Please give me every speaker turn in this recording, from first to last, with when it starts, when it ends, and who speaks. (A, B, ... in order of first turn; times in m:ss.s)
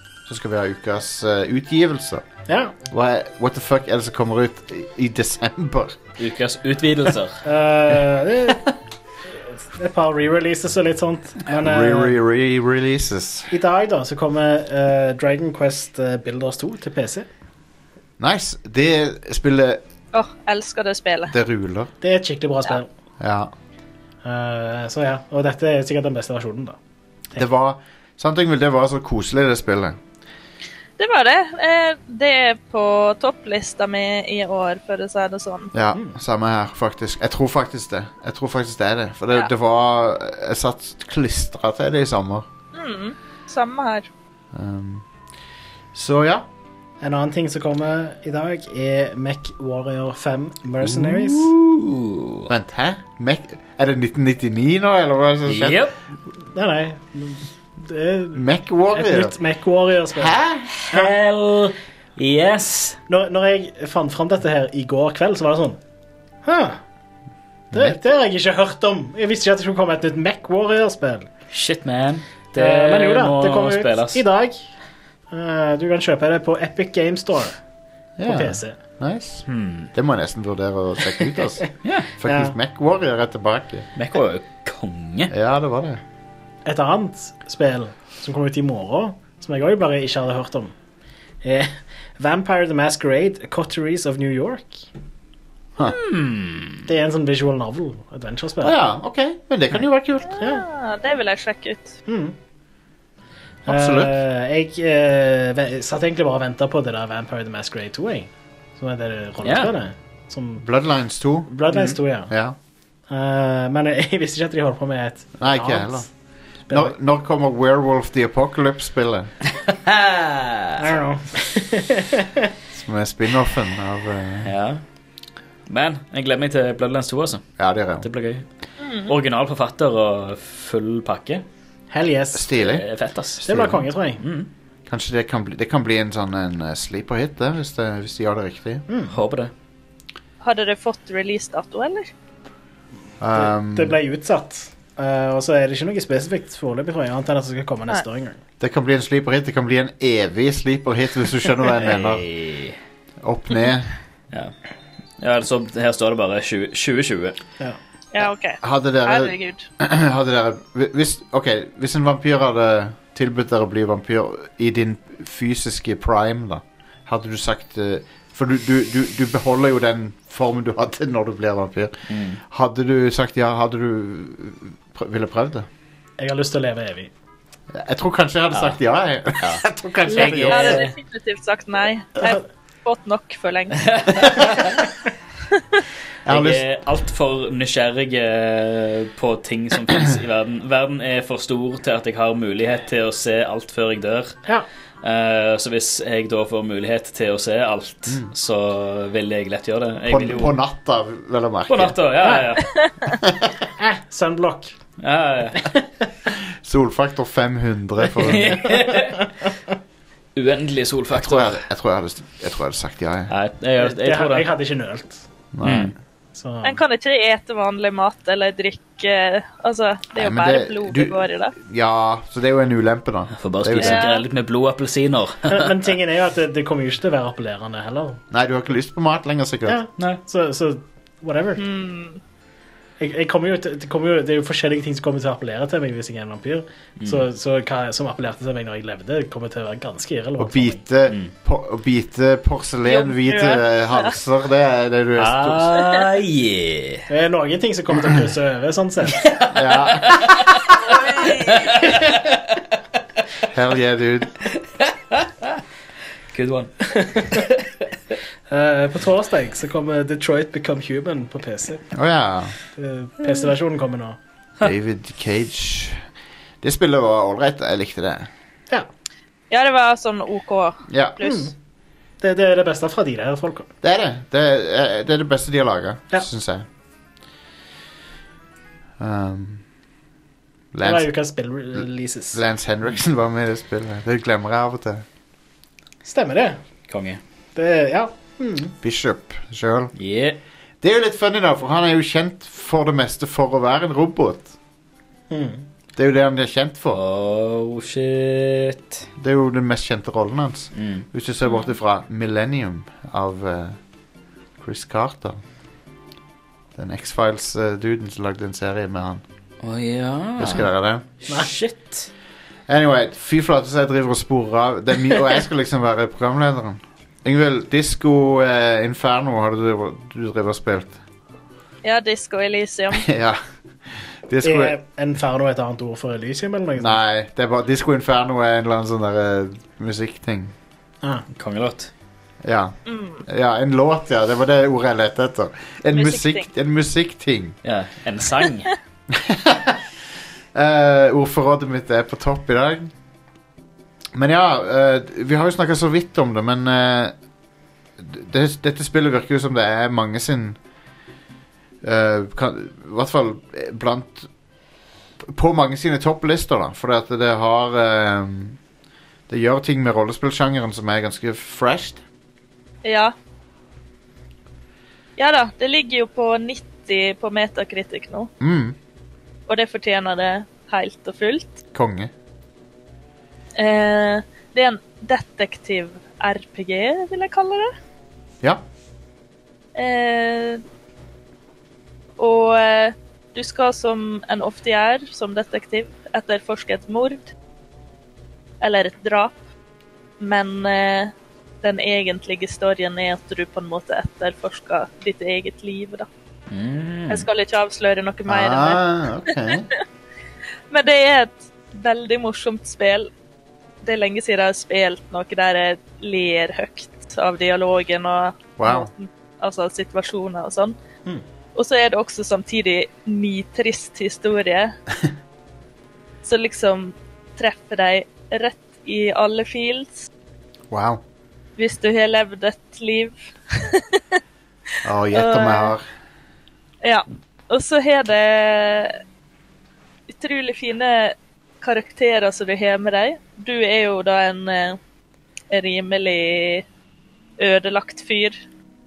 0:00.2-0:02.2 A
0:02.5-0:02.7 B
0:02.9-0:06.0 A
0:06.2-0:07.4 C
0:07.4-0:08.6 B
0:09.5-0:12.2 B
0:11.5-0:13.5 A
0:13.5-0:17.3 B
0:18.2-0:19.8 A
0:20.1-0:21.3 D
0:21.3-0:21.9 A
0:22.0-0:22.9 B
0:23.2-0:23.5 A
0:24.2-0:26.8 B
0:27.4-0:30.0 A
0:31.0-0:35.7 D
0:35.7-0:42.5 A
0:42.7-0:44.1 D
0:44.5-0:45.0 A
0:45.9-0:46.5 A
0:47.0-0:51.5 B
0:51.4-0:52.5 C
0:52.5-0:55.9 A
0:55.5-0:55.9 C
0:56.5-1:00.4 B
0:58.3-0:59.3 A
1:00.1-1:00.8 A
1:00.8-1:03.0 C
1:03.1-1:05.8 B
1:06.4-1:06.8 B
1:07.7-1:11.3 B
1:11.5-1:14.2 C
1:12.6-1:14.7 B
1:15.3-1:17.6 B
1:18.2-1:23.8 A
1:18.2-1:18.8 B
1:19.5-1:19.9 C
1:22.2-1:22.5 B
1:24.0-1:25.3 C
1:25.3-1:26.0 A
1:26.6-1:30.7 B
1:31.4-1:34.9 B
1:35.8-1:36.8 C
1:36.8-1:38.7 B
1:38.6-1:40.3 A
1:40.2-1:42.0 D
1:42.1-1:42.4 B
1:43.6-1:44.1 A
1:43.6-1:50.6 B
1:49.4-1:49.7 C
1:50.6-1:51.5 A
1:51.5-1:52.3 B
1:52.3-1:52.6 A
1:53.1-1:56.1 B
1:55.4-1:56.1 A
1:56.7-1:59.3 A
1:59.8-2:00.8 C
2:00.8-2:02.3 B
2:02.7-2:04.5 A
2:04.4-2:04.8 C
2:05.7-2:07.5 C
2:07.6-2:08.1 A
2:08.0-2:08.4 C
2:08.8-2:09.1 D
2:09.0-2:11.4 C
2:11.9-2:12.5 B
2:12.3-2:12.8 A
2:12.6-2:13.5 C
2:13.4-2:14.2 B
2:13.4-2:13.8 A
2:14.2-2:14.5 C
2:14.9-2:18.8 A
2:18.9-2:19.1 B
2:19.1-2:19.5 C
2:20.4-2:22.1 D
2:23.2-2:24.0 A
2:23.3-2:28.4 B
2:28.6-2:32.3 A
2:31.8-2:32.8 C
2:33.2-2:33.9 A
2:35.2-2:37.4 C
2:38.1-2:39.6 D
2:38.2-2:55.7 A
2:52.1-2:52.4 C
2:56.2-2:57.1 B
2:57.7-3:00.8 A
2:59.4-3:00.9 C
3:00.1-3:04.3 D
3:03.8-3:04.7 C
3:06.2-3:06.6 A
3:06.3-3:14.4 C
3:15.0-3:20.6 C
3:20.0-3:22.0 A
3:21.7-3:22.8 C
3:22.7-3:23.1 D
3:23.8-3:24.7 B
3:25.0-3:25.7 C
3:26.6-3:28.8 A
3:28.2-3:29.3 C
3:30.4-3:31.6 C
3:31.1-3:33.3 A
3:33.3-3:34.5 C
3:33.8-3:35.2 B
3:35.5-3:35.9 A
3:35.6-3:35.9 C
3:36.3-3:36.8 B
3:36.6-3:41.5 D
3:40.1-3:44.0 A
3:43.4-3:45.7 C
3:43.8-3:44.2 D
3:45.5-3:48.2 B
3:48.3-3:49.8 A
3:49.6-3:51.6 B
3:51.6-3:52.2 D
3:53.0-4:00.8 B
4:00.4-4:05.8 A
4:02.8-4:04.2 D
4:05.2-4:07.1 C
4:07.1-4:09.2 B
4:09.2-4:10.7 C
4:09.5-4:10.2 A
4:11.2-4:12.3 C
4:13.5-4:14.4 A
4:15.1-4:15.6 C
4:16.3-4:17.5 C
4:16.9-4:17.4 B
4:18.5-4:21.9 B
4:21.9-4:22.5 A
4:22.8-4:24.2 B
4:24.6-4:26.0 A
4:26.6-4:28.3 A
4:29.5-4:31.5 D
4:30.9-4:31.2 A
4:31.2-4:31.5 B
4:32.2-4:33.7 B
4:33.8-4:36.6 A
4:39.0-4:39.6 A
4:40.7-4:41.1 A
4:40.8-4:42.4 B
4:41.7-4:45.0 A
4:46.0-4:46.6 B
4:46.9-4:47.2 C
4:47.6-4:48.7 B
4:48.8-4:49.9 A
4:50.0-4:50.4 C
4:50.8-4:54.5 A
4:55.3-4:55.6 B
4:56.0-4:57.0 A
4:56.9-4:59.0 C
4:59.2-5:03.8 A
5:00.7-5:01.0 C
5:01.4-5:01.7 D
5:04.6-5:05.4 A
5:06.8-5:09.2 A
5:09.6-5:10.7 C
5:10.4-5:11.0 A
5:11.2-5:12.1 C
5:12.7-5:21.0 A
5:21.8-5:23.0 D
5:22.9-5:23.4 A
5:24.3-5:24.8 A
5:24.4-5:27.0 B
5:26.8-5:30.5 A
5:31.3-5:31.9 C
5:32.4-5:37.6 A
5:32.8-5:33.2 D
5:35.9-5:36.5 D
5:37.6-5:38.7 C
5:39.1-5:39.8 A
5:40.5-5:42.9 A
5:44.1-5:47.1 A
5:48.0-5:50.6 A
5:51.8-5:54.3 A
5:55.2-5:58.6 A
5:59.3-6:02.0 A
6:02.8-6:03.1 D
6:05.2-6:08.3 D
6:08.4-6:08.8 A
6:09.5-6:11.6 D
6:11.7-6:12.1 A
6:13.6-6:17.7 D
6:19.7-6:20.6 D
6:22.2-6:27.3 D
6:28.6-6:29.4 D
6:30.2-6:36.1 D
6:36.5-6:37.2 C
6:37.1-6:39.8 D
6:38.3-6:39.6 A
6:40.7-6:43.1 D
6:43.8-6:50.8 D
6:48.6-6:48.9 A
6:51.5-6:54.7 D
6:56.2-7:00.1 D
7:00.7-7:01.0 A
7:01.6-7:04.2 D
7:04.8-7:05.8 A
7:05.1-7:05.7 D
7:06.8-7:09.0 D
7:10.1-7:14.8 D
7:15.5-7:16.6 D
7:17.4-7:18.4 D